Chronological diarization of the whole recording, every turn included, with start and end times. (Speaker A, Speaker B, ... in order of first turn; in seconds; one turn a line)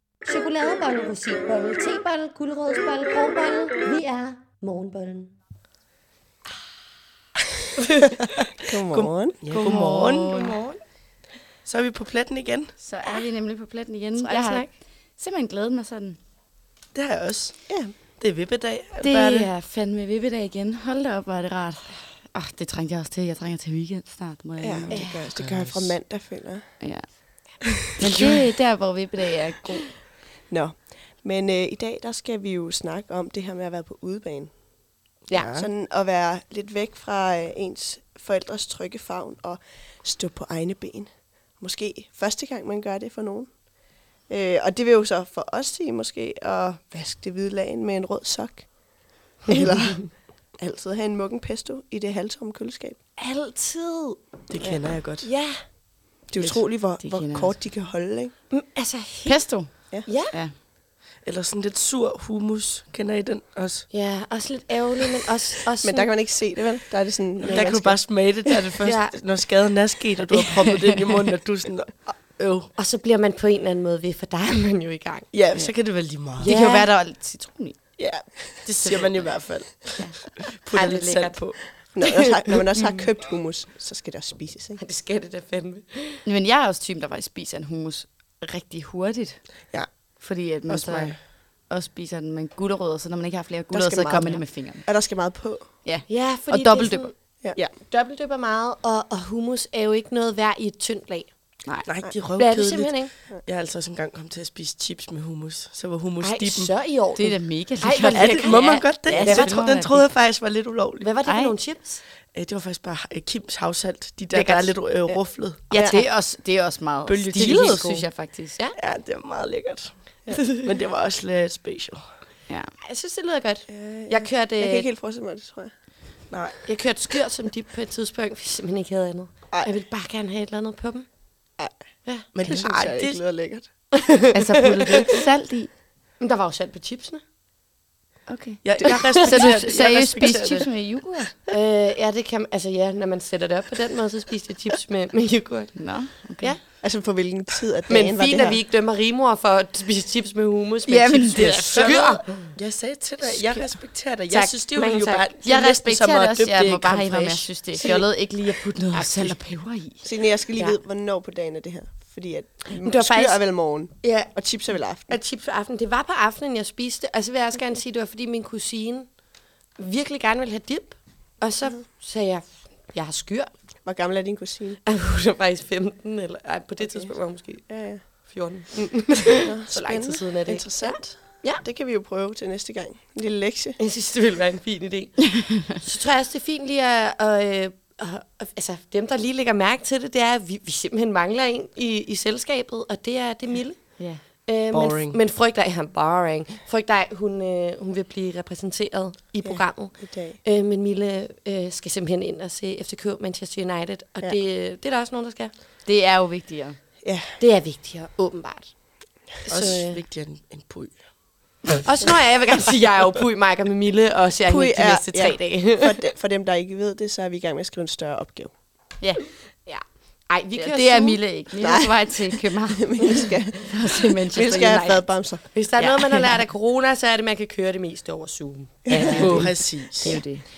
Speaker A: 0.2-5.3
Speaker A: 7.8-8.2
Speaker B: 8.7-9.4
Speaker C: 8.9-10.6
Speaker D: 9.5-10.6
Speaker A: 10.3-10.8
Speaker C: 11.7-12.8
Speaker D: 12.8-16.2
Speaker A: 14.2-14.7
Speaker C: 16.9-19.5
Speaker B: 17.7-17.9
Speaker D: 19.0-25.1
Speaker C: 24.6-25.9
Speaker B: 24.9-26.8
Speaker A: 24.9-25.2
Speaker D: 26.8-29.9
Speaker B: 30.5-34.5
Speaker C: 35.3-35.7
Speaker B: 35.5-43.6
Speaker B: 44.3-53.0
Speaker A: 53.2-54.2
Speaker C: 54.5-55.3
Speaker A: 55.2-55.6
Speaker B: 56.3-58.3
Speaker D: 56.5-57.6
Speaker A: 58.5-59.5
Speaker D: 59.3-60.5
Speaker A: 60.1-60.4
Speaker C: 61.2-63.9
Speaker A: 63.9-66.1
Speaker B: 65.8-68.2
Speaker C: 67.5-72.7
Speaker A: 68.8-69.2
Speaker A: 72.8-75.3
Speaker C: 75.3-76.5
Speaker D: 75.5-77.8
Speaker A: 76.4-76.9
Speaker C: 78.0-81.7
Speaker A: 78.7-79.3
Speaker A: 80.8-82.6
Speaker B: 81.9-84.8
Speaker A: 84.8-86.2
Speaker D: 86.2-94.9
Speaker C: 90.7-91.2
Speaker B: 93.7-95.7
Speaker D: 95.8-97.1
Speaker A: 96.1-97.2
Speaker A: 97.8-101.3
Speaker C: 101.8-106.7
Speaker A: 102.4-103.1
Speaker A: 106.2-109.7
Speaker D: 107.2-110.1
Speaker C: 108.1-111.1
Speaker A: 111.0-112.0
Speaker D: 111.2-111.5
Speaker C: 112.3-115.6
Speaker A: 114.4-114.6
Speaker B: 115.7-116.1
Speaker D: 115.7-118.6
Speaker C: 117.1-118.0
Speaker A: 117.4-117.8
Speaker C: 118.8-122.0
Speaker A: 122.8-124.9
Speaker B: 123.7-125.7
Speaker C: 126.3-126.7
Speaker A: 126.7-131.1
Speaker B: 132.3-133.7
Speaker C: 132.3-133.4
Speaker D: 134.3-135.7
Speaker A: 136.2-137.2
Speaker D: 138.3-141.3
Speaker C: 138.6-140.8
Speaker A: 138.8-139.7
Speaker A: 141.5-146.6
Speaker D: 145.8-146.6
Speaker B: 146.8-148.6
Speaker A: 147.9-152.5
Speaker D: 150.9-151.9
Speaker C: 151.3-158.0
Speaker A: 154.3-155.4
Speaker D: 155.4-160.8
Speaker C: 158.8-159.4
Speaker B: 160.0-165.2
Speaker A: 162.8-169.2
Speaker A: 169.8-173.5
Speaker B: 173.8-174.8
Speaker A: 174.9-181.6
Speaker B: 176.8-177.1
Speaker B: 177.7-178.1
Speaker B: 179.4-183.8
Speaker C: 180.5-181.0
Speaker A: 183.8-205.5
Speaker D: 194.0-194.2
Speaker C: 194.7-195.2
Speaker B: 199.4-200.4
Speaker D: 205.8-206.8
Speaker B: 207.0-207.4
Speaker A: 207.4-210.0
Speaker C: 209.4-211.1
Speaker A: 211.8-215.9
Speaker B: 214.5-218.5
Speaker D: 219.0-219.3
Speaker A: 219.7-221.2
Speaker D: 220.6-225.1
Speaker B: 221.6-222.1
Speaker B: 222.8-225.4
Speaker A: 225.4-230.2
Speaker D: 225.8-226.4
Speaker B: 228.9-229.6
Speaker D: 228.9-230.5
Speaker C: 228.9-230.2